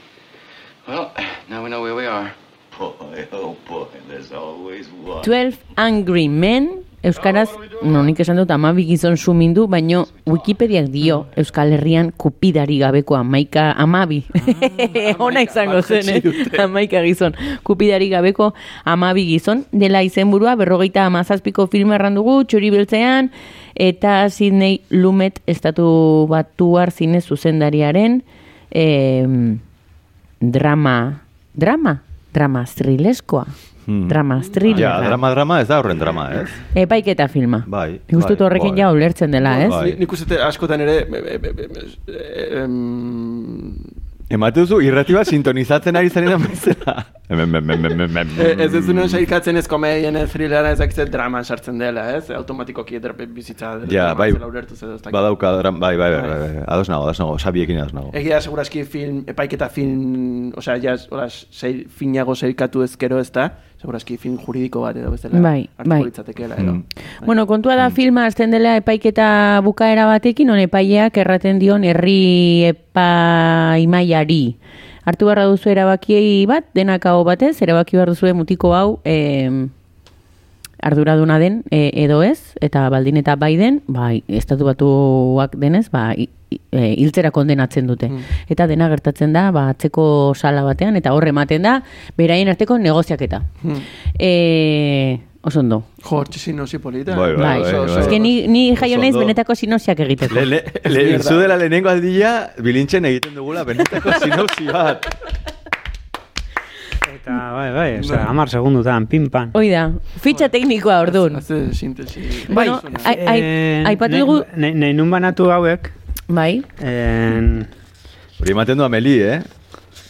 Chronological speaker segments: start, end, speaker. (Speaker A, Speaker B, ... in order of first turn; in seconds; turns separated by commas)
Speaker A: 0.9-5.3, Speaker B: 5.2-29.6, Speaker C: 14.7-16.7, Speaker B: 30.4-33.5, Speaker D: 33.9-34.2, Speaker B: 34.1-35.2, Speaker D: 34.7-36.6, Speaker B: 36.7-39.8, Speaker D: 37.7-38.9, Speaker C: 39.5-43.9, Speaker D: 39.5-40.0, Speaker D: 44.3-49.2, Speaker C: 48.4-55.3, Speaker D: 53.9-54.4, Speaker D: 55.1-58.2, Speaker C: 56.1-56.4, Speaker C: 58.1-67.3, Speaker B: 65.3-66.1, Speaker B: 67.2-79.7, Speaker B: 80.8-93.5, Speaker C: 93.6-93.9, Speaker B: 94.2-95.9, Speaker C: 96.0-98.3, Speaker D: 97.1-98.2, Speaker B: 97.3-100.5, Speaker D: 98.8-99.3, Speaker D: 100.3-105.2, Speaker C: 100.8-101.6, Speaker E: 107.0-109.5, Speaker C: 108.0-108.3, Speaker B: 109.5-111.4, Speaker C: 111.0-113.2, Speaker B: 112.5-114.5, Speaker E: 112.5-115.9, Speaker B: 116.3-116.7, Speaker E: 116.8-117.7, Speaker D: 118.4-119.5